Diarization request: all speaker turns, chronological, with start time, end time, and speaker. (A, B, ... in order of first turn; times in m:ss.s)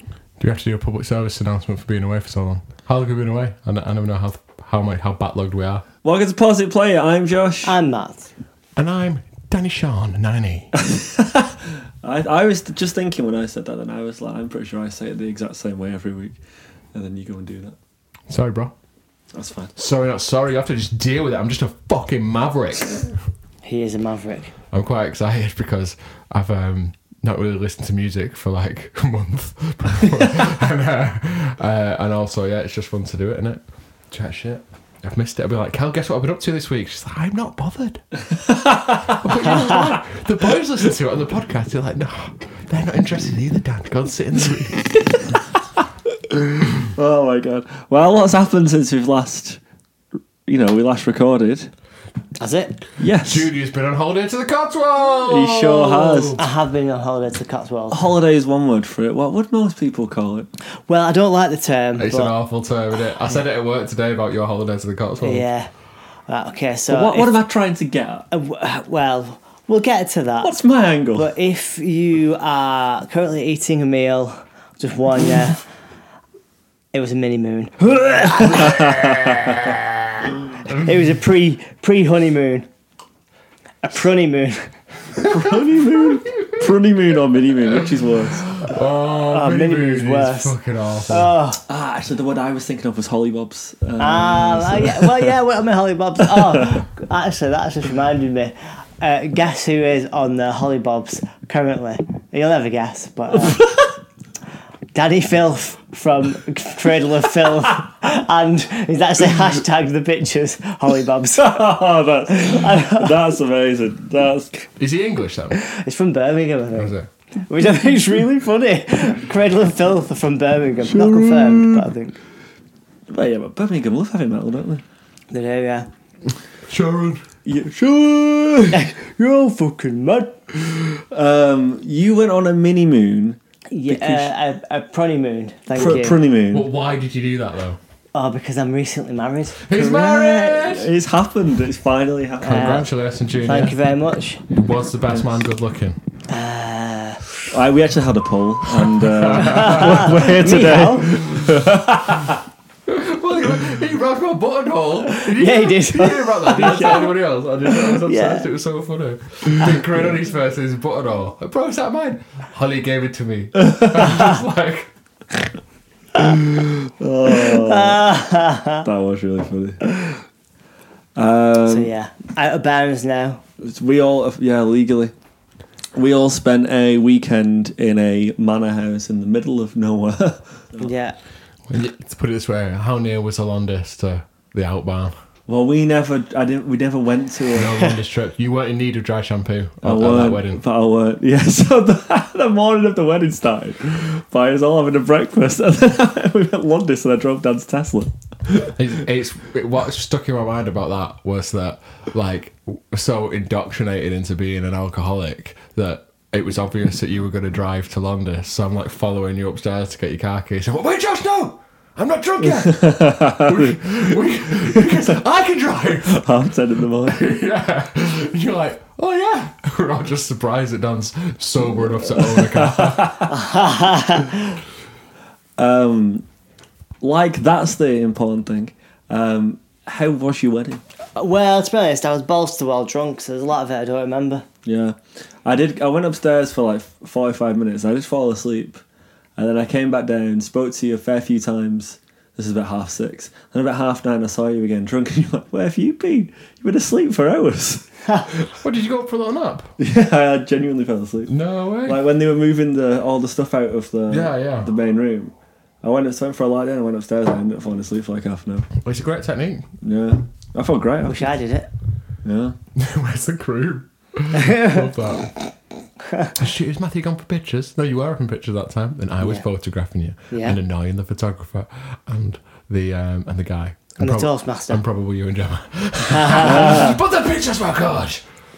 0:00.4-0:05.8 A
0:06.0-0:07.8 B
0:07.6-0:08.3 C
0:08.8-0:10.7 A
0:10.7-0:16.4 B
0:16.9-0:17.8 B
0:18.3-0:18.7 A
0:19.3-0:19.7 B
0:19.8-0:23.2 A
0:23.6-0:24.5 C
0:24.7-0:38.0 A
0:38.4-0:39.2 B
0:39.1-0:45.2 A
0:46.3-0:49.6 B
0:50.4-0:51.7 B
0:52.4-0:52.7 C
0:53.0-0:53.5 B
0:53.2-0:56.4 A
0:55.2-0:56.4 B
0:56.4-0:58.0 C
0:57.9-1:00.5 B
1:00.9-1:02.3 C
1:02.0-1:05.4 A
1:05.2-1:05.7 C
1:06.3-1:07.4 C
1:06.9-1:08.3 B
1:08.3-1:10.6 C
1:10.4-1:11.3 B
1:11.1-1:15.6 C
1:16.9-1:19.7 C
1:18.3-1:19.7 B
1:19.2-1:19.6 A
1:20.6-1:20.9 A
1:20.7-1:22.7 C
1:23.8-1:24.7 C
1:25.2-1:26.7 A
1:25.2-1:28.4 B
1:28.4-1:31.3 A
1:29.3-1:30.5 C
1:31.1-1:31.6 C
1:31.7-1:35.4 B
1:34.0-1:43.7 C
1:36.2-1:36.8 B
1:43.3-1:43.9 B
1:44.9-1:51.6 C
1:51.4-1:54.5 B
1:52.3-1:53.2 C
1:54.8-1:55.6 A
1:55.5-1:56.9 C
1:56.8-1:57.1 A
1:57.5-2:02.2 C
2:00.8-2:01.9 B
2:03.1-2:04.8 B
2:05.3-2:05.9 C
2:06.7-2:07.2 A
2:07.4-2:08.9 B
2:08.7-2:10.4 C
2:11.0-2:14.3 B
2:13.7-2:16.2 C
2:15.7-2:16.7 B
2:16.5-2:17.8 A
2:18.1-2:20.7 C
2:19.6-2:20.9 A
2:20.6-2:22.8 B
2:22.4-2:22.9 C
2:22.4-2:23.8 A
2:23.4-2:24.4 C
2:24.5-2:26.0 A
2:26.3-2:27.2 C
2:27.5-2:32.4 B
2:28.9-2:30.1 A
2:29.4-2:31.2 C
2:32.9-2:44.9 A
2:35.1-2:37.1 C
2:36.5-2:37.1 B
2:37.7-2:38.5 C
2:46.5-2:48.0 B
2:47.2-2:48.9 C
2:48.8-2:49.8 B
2:51.2-2:51.9 B
2:51.7-2:53.4 C
2:53.6-2:55.1 B
2:55.9-3:00.9 B
3:00.8-3:01.2 C
3:01.7-3:05.1 A
3:05.5-3:07.9 B
3:07.5-3:10.6 A
3:09.8-3:18.1 B
3:18.5-3:36.3 A
3:32.4-3:34.1 B
3:34.7-3:35.1 B
3:36.0-3:37.2 B
3:37.0-3:43.3 A
3:42.1-3:43.3 B
3:43.3-3:44.6 C
3:45.6-3:46.2 B
3:47.0-3:50.8 B
3:51.2-3:54.4 C
3:54.6-3:58.8 B
3:59.4-4:07.8 B
4:08.5-4:09.7 A
4:09.8-4:11.3 B
4:11.3-4:12.0 A
4:11.8-4:18.7 B
4:14.1-4:14.7 A
4:18.8-4:19.7 A
4:19.8-4:21.4 B
4:21.0-4:21.7 C
4:22.2-4:22.6 B
4:22.8-4:25.3 A
4:24.3-4:25.1 C
4:26.4-4:38.2 A
4:30.3-4:30.6 C
4:34.0-4:34.8 C
4:36.1-4:36.9 C
4:36.4-4:36.9 B